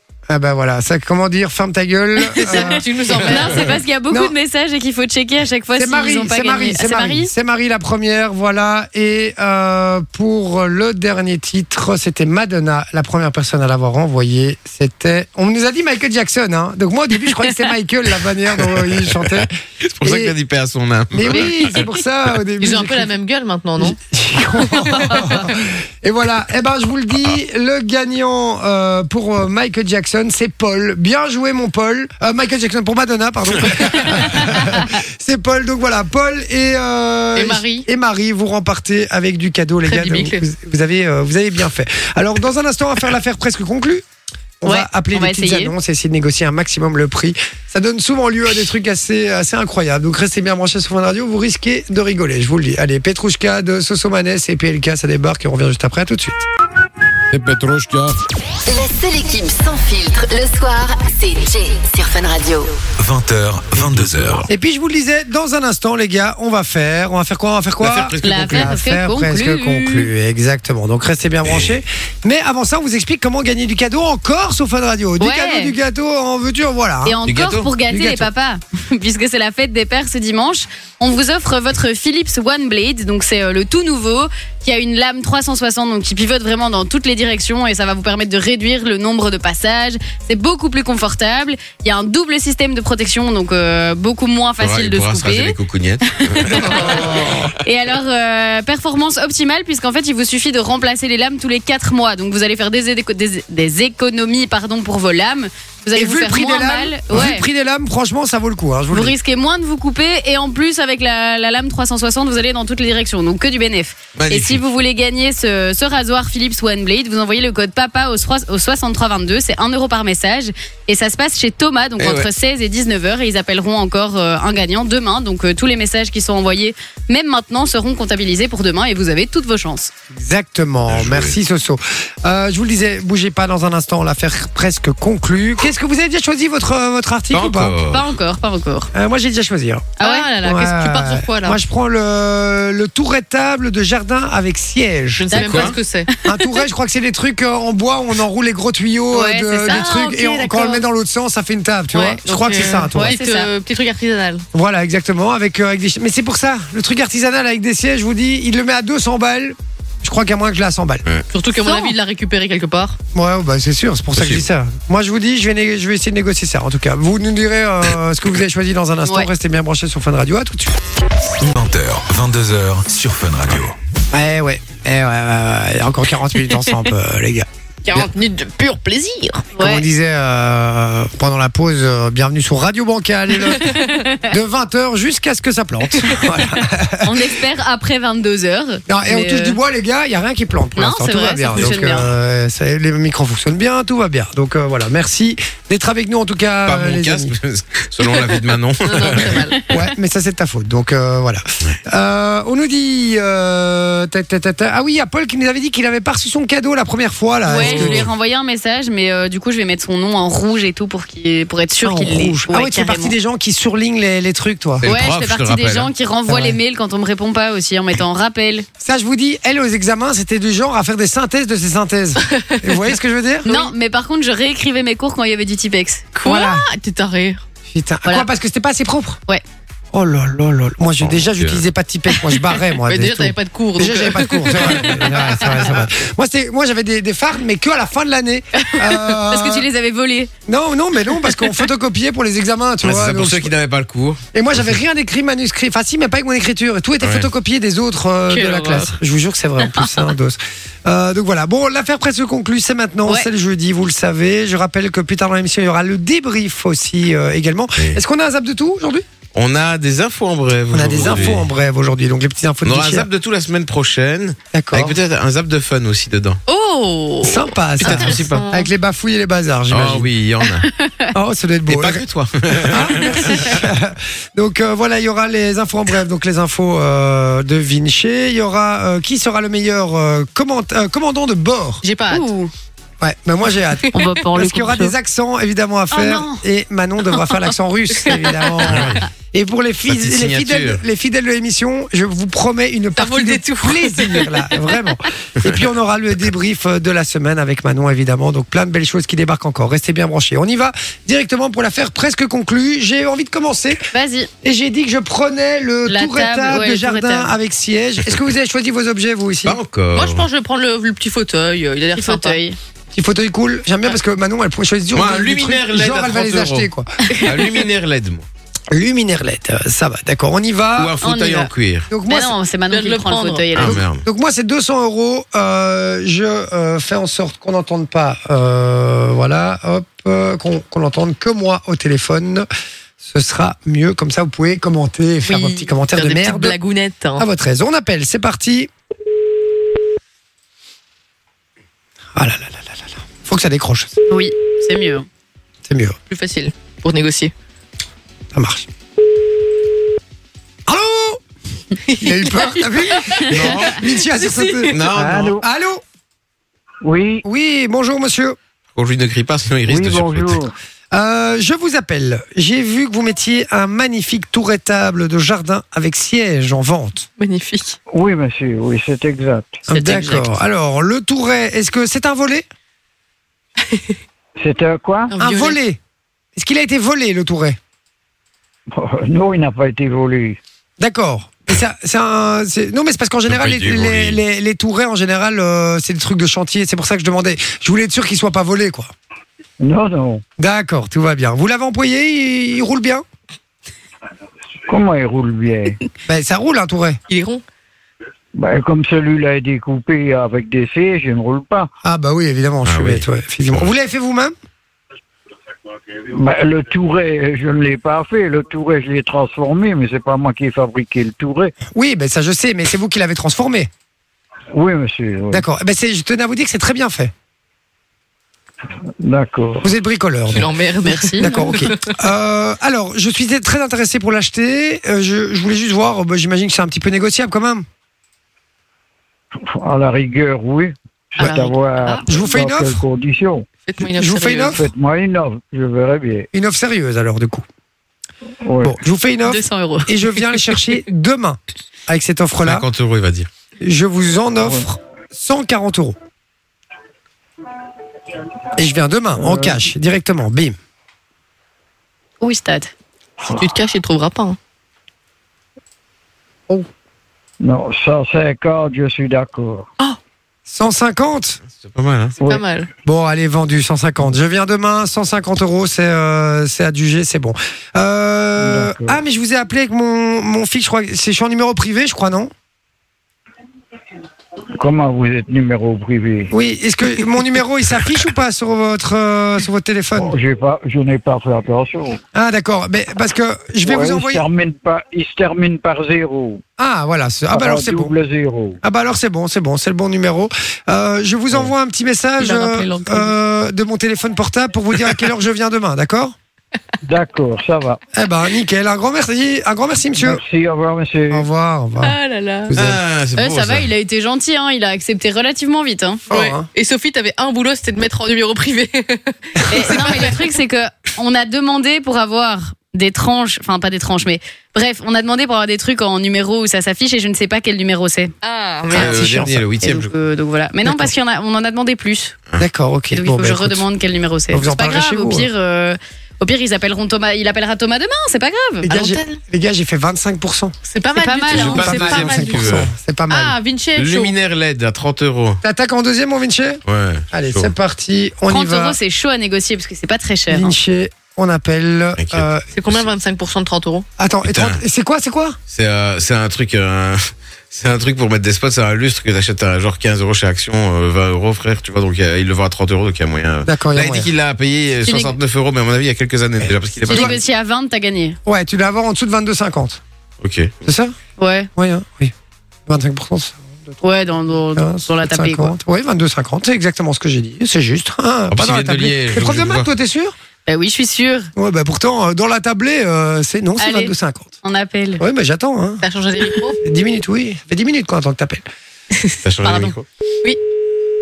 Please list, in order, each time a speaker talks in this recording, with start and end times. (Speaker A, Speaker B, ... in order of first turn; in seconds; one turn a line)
Speaker A: 0.3-4.3
Speaker B: 2.3-3.8
Speaker C: 2.5-7.3
Speaker A: 5.7-19.5
Speaker D: 19.9-21.7
Speaker A: 20.0-20.3
Speaker A: 21.1-23.1
Speaker B: 22.6-24.0
Speaker A: 23.8-44.0
Speaker B: 24.7-25.3
Speaker B: 37.4-37.9
Speaker B: 39.9-40.4
Speaker A: 44.6-56.4
Speaker C: 44.6-45.7
Speaker D: 57.3-58.1
Speaker E: 58.7-62.8
Speaker F: 63.0-64.5
Speaker A: 64.5-77.2
Speaker D: 67.8-68.7
Speaker C: 68.2-70.1
Speaker C: 75.2-75.7
Speaker C: 77.0-95.6
Speaker D: 77.2-77.7
Speaker A: 77.8-78.3
Speaker D: 94.6-97.1
Speaker C: 96.3-97.0
Speaker A: 96.4-97.5
Speaker C: 97.6-107.5
Speaker A: 105.9-109.1
Speaker C: 108.9-129.9
Speaker D: 114.2-114.6
Speaker D: 122.0-122.3
Speaker A: 130.1-137.8
Speaker D: 130.9-131.3
Speaker D: 137.3-138.1
Speaker C: 137.9-138.9
Speaker A: 138.9-145.3
Speaker C: 140.0-140.3
Speaker B: 140.0-141.6
Speaker B: 145.2-146.1
Speaker C: 145.3-145.8
Speaker D: 145.4-145.7
Speaker A: 146.2-153.1
Speaker C: 149.1-149.7
Speaker B: 149.5-150.8
Speaker C: 151.9-152.2
Speaker B: 152.2-154.4
Speaker C: 152.9-153.5
Speaker A: 154.5-161.0
Speaker B: 161.3-163.0
Speaker C: 161.6-161.9
Speaker A: 163.1-170.7
Speaker D: 164.2-164.4
Speaker F: 171.4-173.7
Speaker A: 174.1-178.1
Speaker B: 177.8-179.5
Speaker C: 179.5-179.8
Speaker A: 179.6-183.7
Speaker C: 183.6-184.2
Speaker A: 184.2-187.2
Speaker C: 187.0-189.6
Speaker A: 188.9-197.3
Speaker C: 190.8-192.1
Speaker D: 196.6-199.5
Speaker B: 198.0-199.6
Speaker A: 199.7-208.1
Speaker C: 207.5-213.1
Speaker B: 207.5-207.9
Speaker A: 211.8-214.9
Speaker D: 214.8-215.9
Speaker C: 214.8-218.7
Speaker A: 216.3-216.6
Speaker A: 218.8-223.5
Speaker B: 222.3-222.8
Speaker B: 223.4-223.7
Speaker C: 223.4-226.2
Speaker B: 226.2-227.4
Speaker A: 226.2-226.6
Speaker A: 227.7-229.2
Speaker A: 229.9-239.7
Speaker D: 231.0-231.6
Speaker B: 232.8-235.5
Speaker C: 239.3-240.3
Speaker A: 240.4-243.5
Speaker D: 242.8-244.7
Speaker A: 244.3-259.0
Speaker D: 247.0-247.3
Speaker B: 248.3-248.9
Speaker D: 259.3-261.5
Speaker A: 260.7-263.1
Speaker D: 262.6-266.4
Speaker A: 264.5-265.0
Speaker B: 266.5-268.7
Speaker A: 267.2-270.1
Speaker D: 267.8-268.4
Speaker D: 269.7-270.7
Speaker C: 270.6-271.1
Speaker A: 271.1-272.0
Speaker D: 271.7-273.6
Speaker A: 272.6-281.8
Speaker B: 281.8-282.3
Speaker C: 282.1-282.5
Speaker A: 283.0-303.8
Speaker B: 283.9-284.2
Speaker C: 283.9-284.9
Speaker C: 285.9-286.4
Speaker D: 288.7-289.0
Speaker D: 289.8-290.8
Speaker B: 292.9-294.3
Speaker C: 303.9-304.3
Speaker A: 304.4-309.6
Speaker C: 305.9-307.4
Speaker D: 309.4-310.3
Speaker B: 309.9-312.4
Speaker C: 311.9-312.6
Speaker A: 312.9-316.9
Speaker D: 314.9-316.7
Speaker D: 317.2-318.2
Speaker A: 318.7-321.0
Speaker D: 320.8-321.9
Speaker C: 321.0-321.5
Speaker A: 321.9-322.3
Speaker C: 322.1-323.8
Speaker B: 322.7-323.6
Speaker D: 323.5-324.0
Speaker A: 323.6-332.5
Speaker A: 333.0-336.6
Speaker B: 335.3-337.2
Speaker A: 337.2-338.7
Speaker A: 342.1-343.9
Speaker C: 344.1-345.1
Speaker A: 345.6-346.0
Speaker B: 346.1-347.3
Speaker A: 348.3-348.7
Speaker A: 350.7-351.2
Speaker B: 351.9-353.2
Speaker A: 352.0-355.8
Speaker D: 353.3-353.8
Speaker B: 354.2-354.7
Speaker D: 354.7-355.4
Speaker G: 354.9-355.4
Speaker G: 356.8-357.2
Speaker A: 357.2-358.4
Speaker D: 358.7-360.4
Speaker G: 359.6-360.5
Speaker A: 360.9-367.1
Speaker B: 367.2-367.8
Speaker G: 367.9-369.6
Speaker A: 369.7-372.4
Speaker C: 369.7-370.4
Speaker B: 373.7-373.9
Speaker G: 374.4-375.1
Speaker B: 375.1-375.6
Speaker A: 375.2-375.8
Speaker A: 376.4-377.6
Speaker G: 378.7-380.4
Speaker A: 380.8-388.9
Speaker D: 383.3-384.2
Speaker G: 389.6-390.2
Speaker A: 390.4-393.0
Speaker G: 394.7-395.8
Speaker A: 396.1-397.0
Speaker B: 397.1-397.4
Speaker G: 398.3-401.7
Speaker A: 401.8-404.3
Speaker D: 402.6-403.7
Speaker G: 406.1-411.5
Speaker A: 411.7-413.7
Speaker G: 414.5-415.4
Speaker A: 415.3-417.1
Speaker G: 419.0-419.7
Speaker A: 419.6-420.5
Speaker B: 420.3-421.9
Speaker C: 420.9-421.5
Speaker A: 421.2-427.6
Speaker G: 429.4-433.5
Speaker B: 431.2-431.9
Speaker C: 431.2-432.0
Speaker A: 432.1-432.8
Speaker B: 433.6-434.6
Speaker A: 433.8-434.6
Speaker G: 434.5-436.3
Speaker A: 436.3-437.4
Speaker G: 438.4-438.8
Speaker A: 438.6-442.6
Speaker B: 439.3-440.7
Speaker D: 442.4-443.3
Speaker A: 443.6-445.9
Speaker A: 448.6-450.6
Speaker G: 449.1-449.7
Speaker C: 452.2-452.7
Speaker B: 453.2-454.4
Speaker G: 457.4-459.7
Speaker A: 460.5-461.4
Speaker D: 461.6-462.2
Speaker G: 462.2-462.4
Speaker B: 462.2-462.7
Speaker A: 462.8-472.3
Speaker G: 468.4-469.0
Speaker G: 474.5-476.3
Speaker A: 476.3-480.1
Speaker G: 479.9-482.0
Speaker A: 482.1-484.2
Speaker G: 483.6-486.4
Speaker A: 486.6-487.9
Speaker G: 487.3-488.6
Speaker A: 488.6-496.1
Speaker C: 492.2-493.1
Speaker B: 492.2-493.0
Speaker G: 496.9-497.8
Speaker A: 497.9-500.2
Speaker G: 499.9-501.3
Speaker A: 501.1-502.0
Speaker B: 501.8-502.5
Speaker A: 502.5-502.8
Speaker D: 502.5-503.7
Speaker C: 503.2-506.0
Speaker A: 506.1-506.5
Speaker B: 506.1-510.1
Speaker C: 509.5-518.1
Speaker B: 518.2-519.3
Speaker C: 518.7-522.1
Speaker D: 518.7-519.9
Speaker A: 518.8-519.4
Speaker A: 520.6-520.9
Speaker A: 522.4-523.6
Speaker C: 522.9-528.7
Speaker A: 524.3-525.3
Speaker A: 528.6-530.5
Speaker B: 528.7-529.1
Speaker B: 530.7-532.6
Speaker C: 531.0-532.1
Speaker D: 531.3-532.7
Speaker A: 531.3-533.4
Speaker B: 533.1-534.1
Speaker D: 533.8-535.4
Speaker A: 535.4-538.8
Speaker D: 536.7-537.5
Speaker C: 538.3-540.5
Speaker A: 540.3-542.5
Speaker D: 542.0-542.2
Speaker B: 542.5-543.9
Speaker A: 544.0-545.4
Speaker D: 544.2-544.6
Speaker D: 545.5-557.2
Speaker A: 553.4-554.1
Speaker C: 554.8-555.1
Speaker A: 556.4-557.1
Speaker C: 556.9-558.2
Speaker A: 558.2-559.8
Speaker D: 560.2-560.5
Speaker A: 560.6-560.9
Speaker C: 561.2-561.5
Speaker A: 561.5-562.1
Speaker A: 562.7-563.8
Speaker C: 563.8-565.5
Speaker A: 564.5-570.1
Speaker D: 568.3-569.7
Speaker C: 570.5-571.3
Speaker A: 571.4-574.3
Speaker C: 573.6-575.0
Speaker A: 575.0-575.8
Speaker B: 575.8-576.6
Speaker A: 576.6-578.4
Speaker D: 579.2-579.8
Speaker C: 579.5-579.7